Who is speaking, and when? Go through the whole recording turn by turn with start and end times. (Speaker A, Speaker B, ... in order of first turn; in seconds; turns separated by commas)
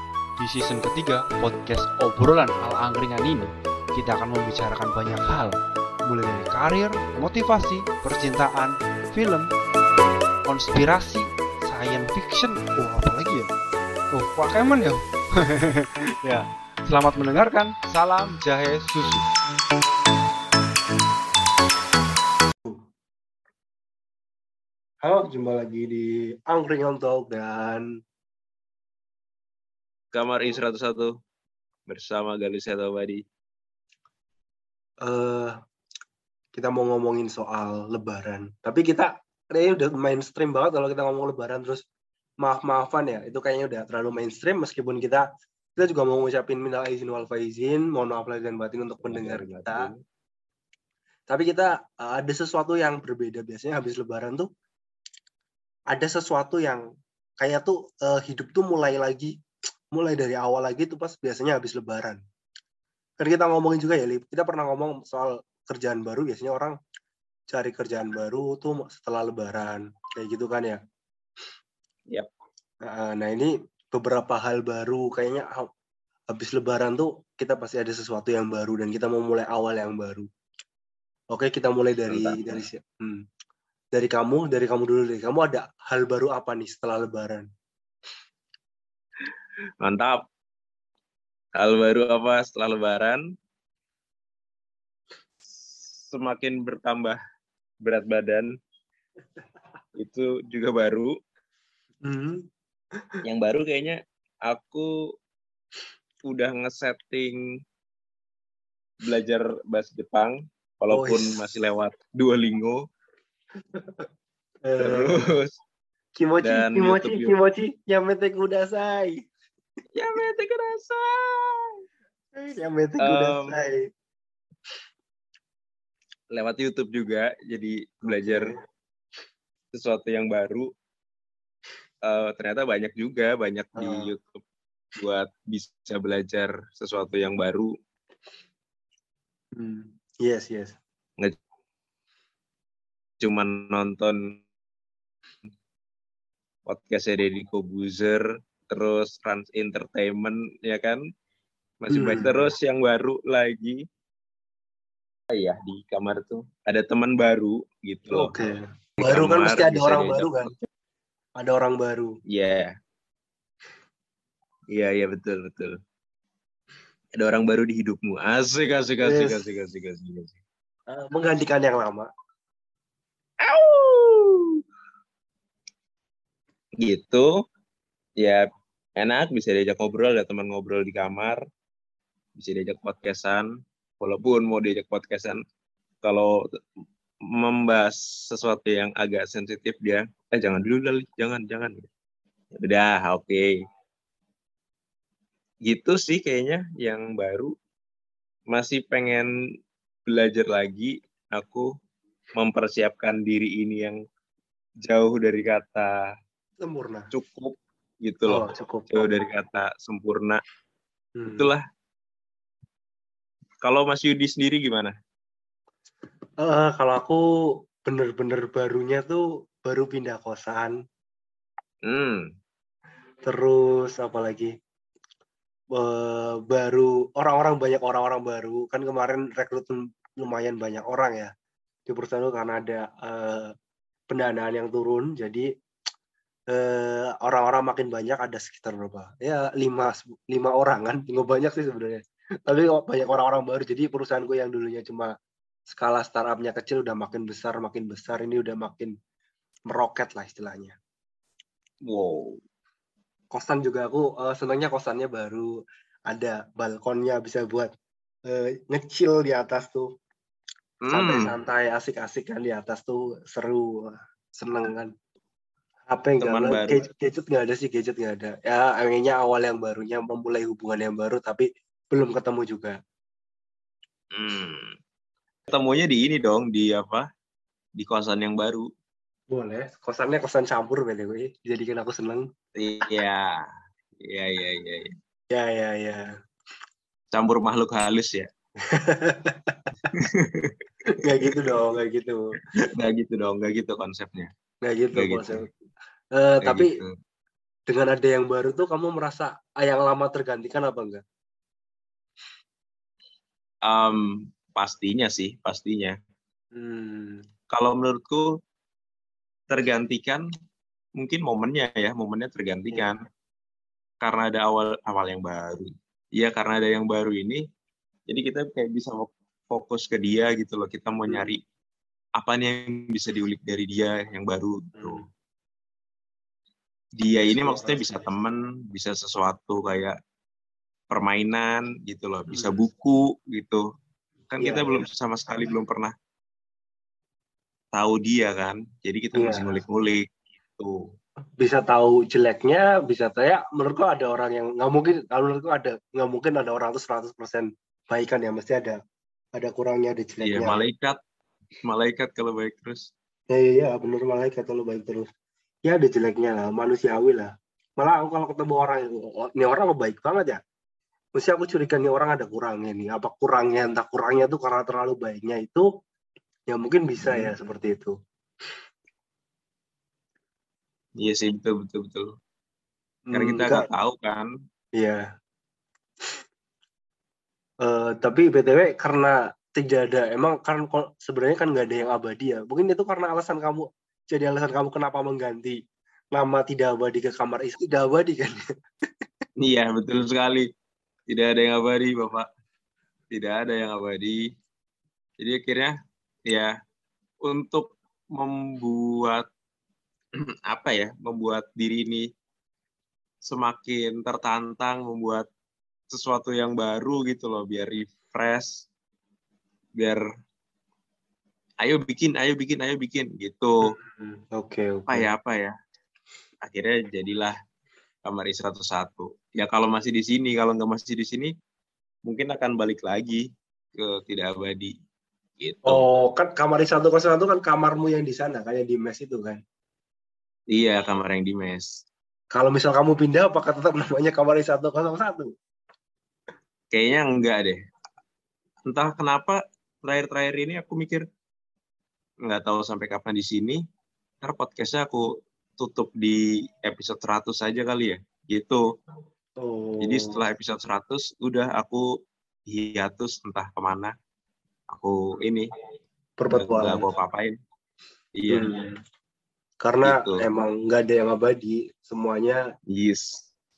Speaker A: 0.4-9.5, Speaker A: 10.4-13.5, Speaker A: 14.1-19.3, Speaker B: 25.0-27.9, Speaker C: 30.1-31.1, Speaker C: 31.9-33.2, Speaker B: 35.0-35.5, Speaker B: 36.5-41.8, Speaker B: 42.4-49.9, Speaker C: 49.0-50.0, Speaker B: 51.3-54.5, Speaker B: 55.9-56.8, Speaker B: 57.4-59.3, Speaker B: 59.9-62.2, Speaker B: 63.2-66.8, Speaker B: 67.5-70.8, Speaker B: 72.8-75.7, Speaker B: 76.3-80.3, Speaker B: 81.3-83.2, Speaker C: 82.1-82.4, Speaker B: 83.9-87.5, Speaker C: 89.8-90.2, Speaker C: 91.6-93.2, Speaker C: 96.1-97.2, Speaker C: 97.8-98.5, Speaker C: 100.0-101.1, Speaker B: 102.0-102.4, Speaker C: 103.2-104.9, Speaker C: 106.3-107.4, Speaker C: 109.0-112.8, Speaker B: 110.9-111.3, Speaker B: 113.8-114.0, Speaker B: 114.6-115.1, Speaker C: 114.8-115.6, Speaker B: 116.2-119.2, Speaker C: 116.4-117.3, Speaker C: 119.9-121.8, Speaker B: 122.3-123.9, Speaker C: 123.0-123.6, Speaker C: 126.3-128.5, Speaker B: 128.1-128.6, Speaker C: 129.7-130.7, Speaker C: 132.0-134.4, Speaker B: 133.8-134.1, Speaker C: 135.0-137.7, Speaker B: 139.6-140.8, Speaker C: 143.2-144.2, Speaker C: 146.7-151.0, Speaker C: 151.8-153.8, Speaker B: 151.9-152.5, Speaker C: 155.3-158.3, Speaker B: 158.1-160.5, Speaker C: 159.0-160.7, Speaker B: 161.4-162.1, Speaker C: 162.3-162.7, Speaker C: 164.7-165.7, Speaker C: 167.2-170.4, Speaker B: 169.0-169.4, Speaker B: 170.9-172.1, Speaker C: 173.4-174.6, Speaker C: 176.8-177.3, Speaker C: 178.2-178.4, Speaker C: 179.0-181.4, Speaker C: 182.4-183.5, Speaker C: 184.0-185.4, Speaker C: 186.0-186.4, Speaker C: 187.3-191.9, Speaker C: 192.5-193.5, Speaker C: 195.7-197.5, Speaker C: 198.5-199.3, Speaker C: 200.1-201.7, Speaker C: 202.3-204.0, Speaker C: 204.8-205.9, Speaker B: 206.6-207.1, Speaker C: 207.1-210.4, Speaker B: 208.3-209.1, Speaker B: 211.2-211.5, Speaker C: 211.3-211.6, Speaker C: 213.6-214.9, Speaker B: 216.4-217.2, Speaker B: 217.8-220.8, Speaker C: 221.8-222.2, Speaker B: 223.2-224.5, Speaker B: 225.8-231.3, Speaker B: 231.9-233.5, Speaker B: 234.1-235.5, Speaker B: 236.5-245.1, Speaker B: 245.7-248.9, Speaker B: 249.7-250.8, Speaker C: 251.9-252.4, Speaker B: 253.3-255.5, Speaker B: 256.1-257.7, Speaker B: 258.3-259.9, Speaker C: 260.8-261.3, Speaker B: 260.9-263.7, Speaker B: 264.4-264.9, Speaker B: 265.9-272.8, Speaker C: 266.2-266.9, Speaker C: 274.1-274.7, Speaker C: 275.5-277.1, Speaker C: 277.8-278.6, Speaker B: 279.3-282.3, Speaker C: 282.6-283.4, Speaker C: 284.0-284.9, Speaker B: 285.3-286.1, Speaker C: 287.1-288.3, Speaker B: 288.7-289.6, Speaker C: 289.9-290.6, Speaker B: 291.0-292.4, Speaker C: 292.6-294.3, Speaker B: 294.6-295.5, Speaker C: 294.9-295.4, Speaker B: 296.1-296.7, Speaker C: 296.4-296.9, Speaker B: 297.7-301.0, Speaker C: 303.6-305.9, Speaker B: 306.5-307.2, Speaker C: 307.5-308.3, Speaker C: 309.5-310.2, Speaker C: 311.0-313.0, Speaker C: 314.0-317.4, Speaker C: 318.1-321.4, Speaker B: 321.1-321.3, Speaker C: 322.2-325.0, Speaker B: 324.8-325.1, Speaker C: 327.0-329.9, Speaker B: 327.2-328.1, Speaker C: 330.9-333.6, Speaker B: 332.3-332.6, Speaker C: 334.3-335.9, Speaker B: 334.4-334.9, Speaker C: 337.7-340.8, Speaker B: 339.1-339.6, Speaker B: 341.4-348.8, Speaker B: 349.4-350.6, Speaker C: 350.2-351.0, Speaker C: 351.6-352.9, Speaker B: 353.3-355.1, Speaker B: 355.6-360.4, Speaker B: 361.1-365.6, Speaker B: 366.5-367.9, Speaker C: 367.0-367.3, Speaker C: 371.0-372.1, Speaker B: 373.1-373.7, Speaker C: 373.1-374.3, Speaker B: 374.8-375.0, Speaker B: 377.6-385.6, Speaker B: 386.1-388.4, Speaker C: 389.4-390.5, Speaker C: 391.1-392.3, Speaker C: 393.1-394.2, Speaker C: 395.2-395.7, Speaker C: 396.3-396.5, Speaker C: 397.2-399.2, Speaker C: 400.5-402.1, Speaker C: 403.3-405.2, Speaker C: 405.9-408.6, Speaker C: 411.6-413.7, Speaker B: 413.8-415.1, Speaker C: 414.9-415.5, Speaker C: 416.4-417.3, Speaker C: 418.0-421.3, Speaker C: 422.1-423.2, Speaker C: 423.7-424.7, Speaker C: 425.4-425.8, Speaker B: 425.6-429.4, Speaker C: 430.5-431.8, Speaker B: 432.3-435.3, Speaker C: 436.7-437.6, Speaker C: 438.7-441.0, Speaker C: 442.2-443.6, Speaker C: 444.2-445.1, Speaker C: 445.6-448.6, Speaker B: 449.4-450.2, Speaker C: 449.8-451.9, Speaker C: 452.5-453.9, Speaker C: 454.7-455.5, Speaker B: 456.2-456.9, Speaker C: 456.3-457.4, Speaker C: 458.1-458.5, Speaker B: 458.3-458.8, Speaker B: 459.6-462.4, Speaker C: 459.8-460.2, Speaker C: 462.7-463.3